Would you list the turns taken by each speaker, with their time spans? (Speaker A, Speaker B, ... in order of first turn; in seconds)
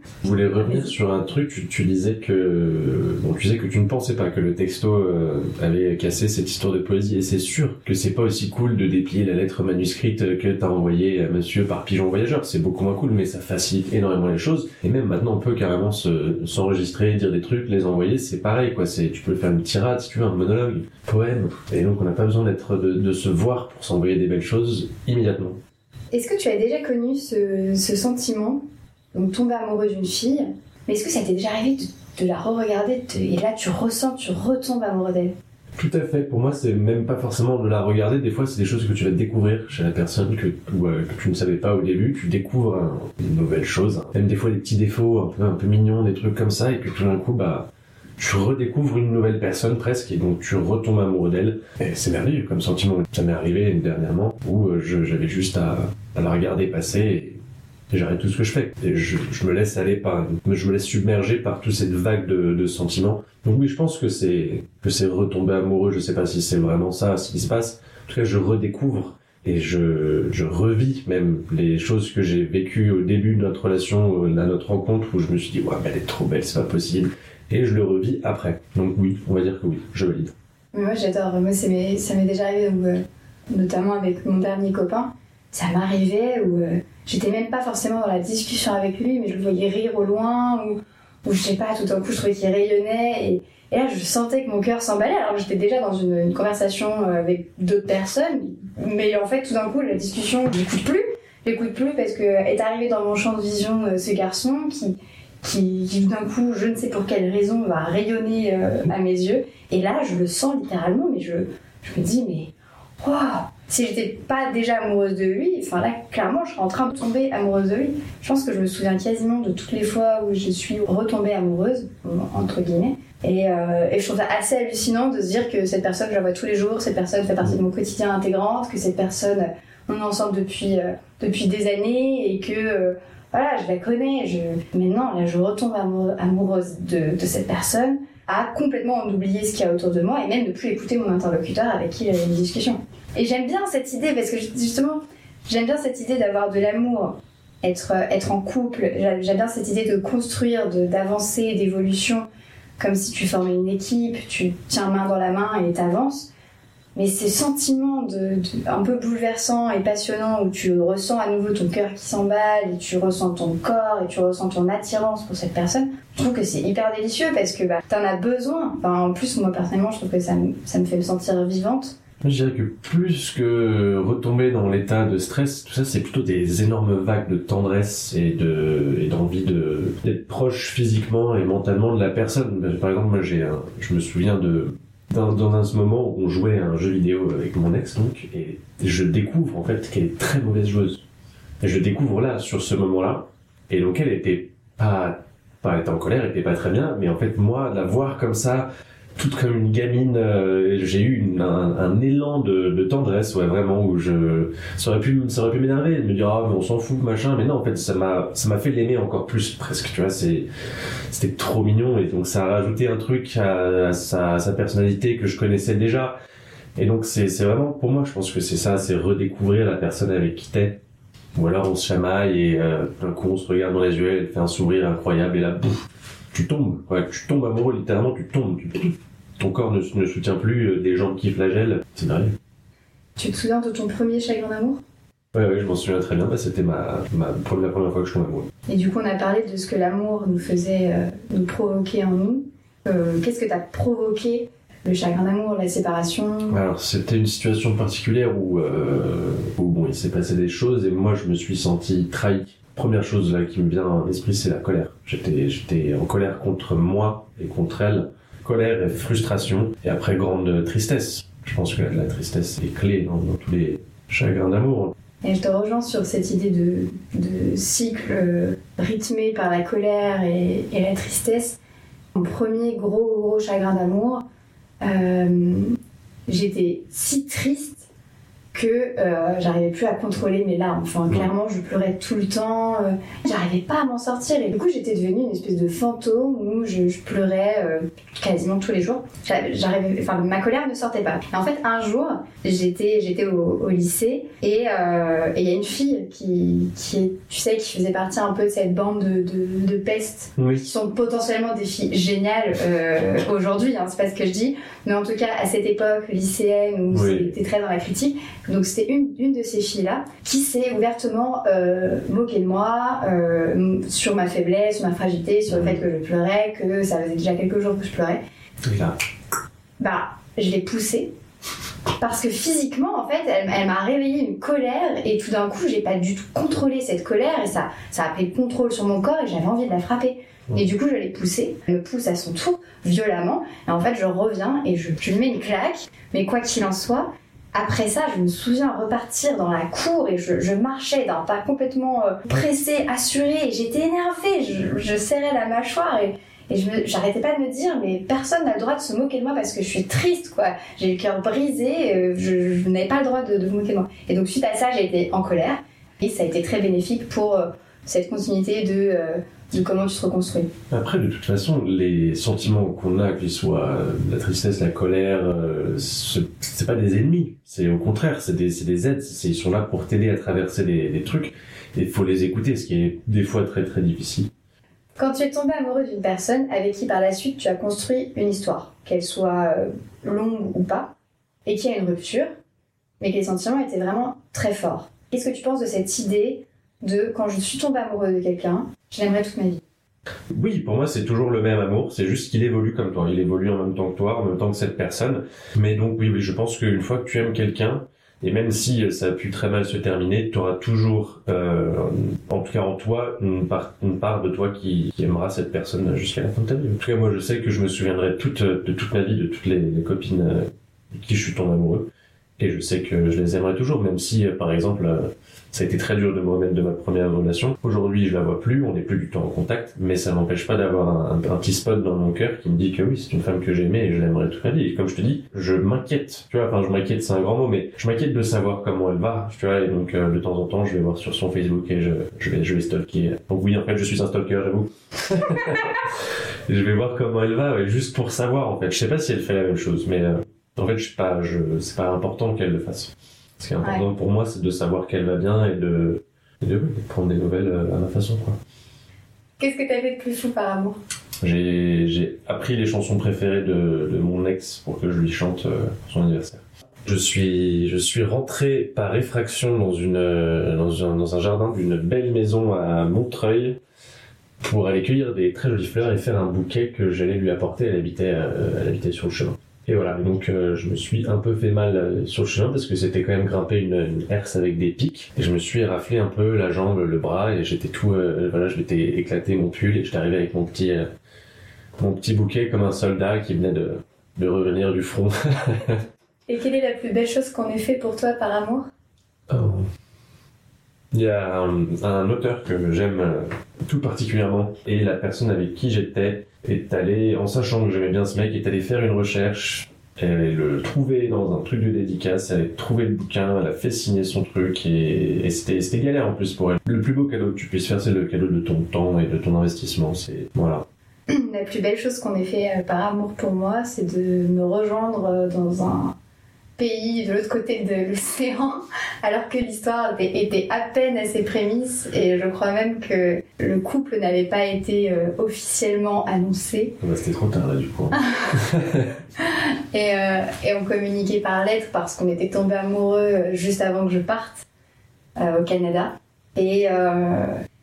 Speaker A: 0.2-25.6, 35.8-47.7, 48.2-57.4, 57.9-80.3, 172.2-191.0, 191.6-210.5, 211.1-216.1, 216.8-220.8, 221.3-232.3, 235.3-238.5, 246.5-264.9, 300.4-300.7, 306.9-307.3, 315.5-315.8, 318.6-318.9, 360.7-374.3, 390.3-435.9, 436.5-448.4, 451.2-463.6, 464.4-480.8, 481.8-485.8, 489.3-489.6, 490.9-510.6, 526.8-528.9
Speaker B: 26.1-28.6, 29.1-35.3, 80.7-152.2, 152.8-156.3, 156.9-171.9, 233.2-234.8, 238.7-246.6, 265.2-271.6, 272.1-274.2, 274.8-275.7, 276.3-277.9, 278.5-318.2, 319.8-321.1, 322.0-360.5, 375.0-380.9, 381.4-382.3, 383.0-389.6, 443.6-443.9, 449.4-450.8, 486.3-488.7, 511.1-515.9, 516.6-526.8, 529.2-534.5, 535.2-537.3